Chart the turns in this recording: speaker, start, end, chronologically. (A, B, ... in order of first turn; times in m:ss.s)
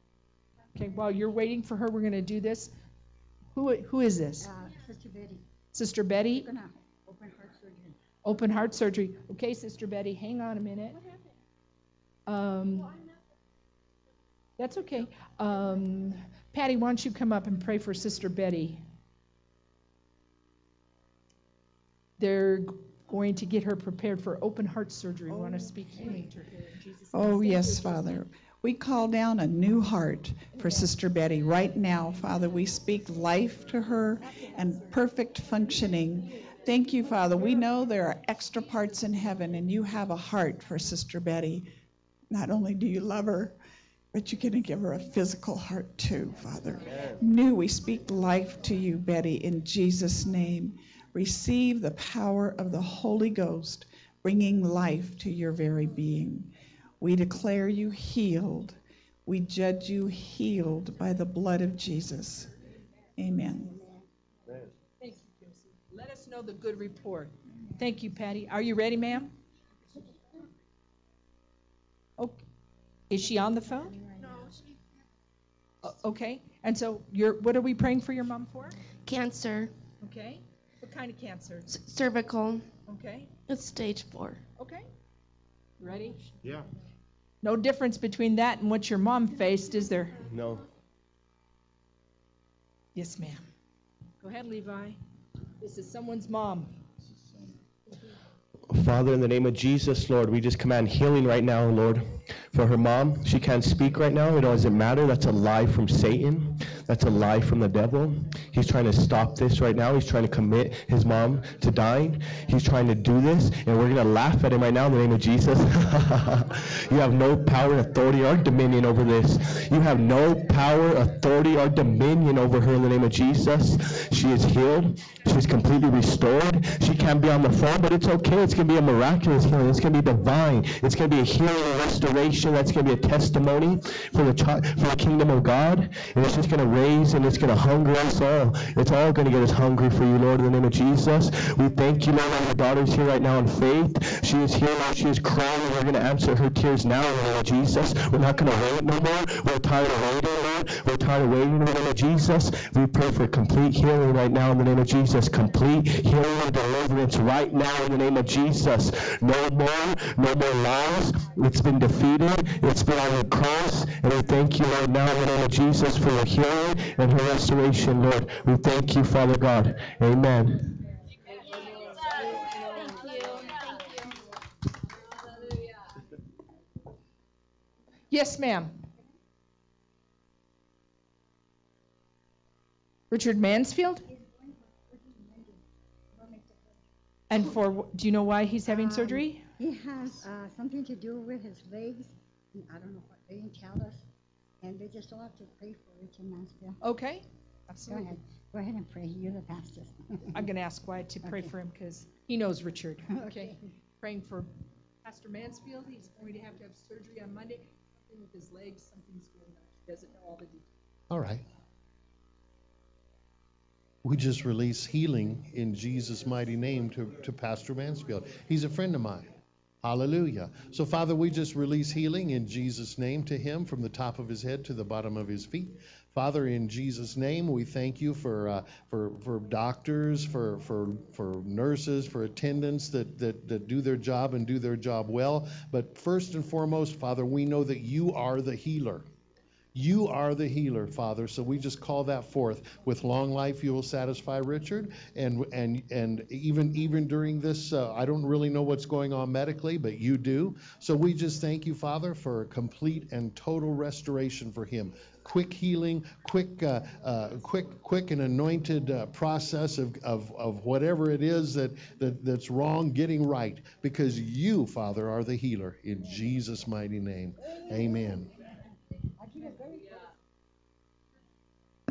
0:00.8-0:02.7 A
0:03.5-0:04.5 A
0:04.4-0:05.4 B
0:05.7-0:06.5 A
0:06.3-0:08.0 B
0:08.2-0:11.0 A
0:12.3-0:12.9 A
0:14.6-0:18.8 A
0:22.2-0:26.7 A
0:27.1-0:41.7 C
0:42.3-0:43.6 C
0:44.1-1:02.5 C
1:03.2-1:03.8 C
1:03.6-1:04.0 B
1:05.0-1:09.3 A
1:13.1-1:14.0 A
1:15.8-1:18.8 A
1:19.0-1:19.7 D
1:20.0-1:21.7 A
1:21.7-1:22.7 D
1:22.9-1:23.3 A
1:23.5-1:24.4 D
1:24.6-1:24.9 A
1:25.8-1:26.2 A
1:27.4-1:30.2 A
1:33.0-1:33.4 A
1:34.2-1:35.0 A
1:35.6-1:36.8 A
1:38.7-2:50.6 D
2:58.1-2:58.8 A
3:03.1-3:04.1 A
3:04.1-3:05.6 B
3:06.2-3:06.8 B
3:07.3-3:09.4 A
3:08.7-3:14.0 B
3:14.6-3:16.8 B
3:16.8-3:18.1 A
3:17.9-3:20.4 B
3:20.3-3:24.5 A
3:21.2-3:21.5 B
3:23.1-3:23.6 B
3:25.0-3:30.7 A
3:31.1-3:31.4 E
3:34.0-3:39.3 E
3:39.8-3:59.0 E
3:59.8-4:28.3 E
4:29.2-4:29.9 B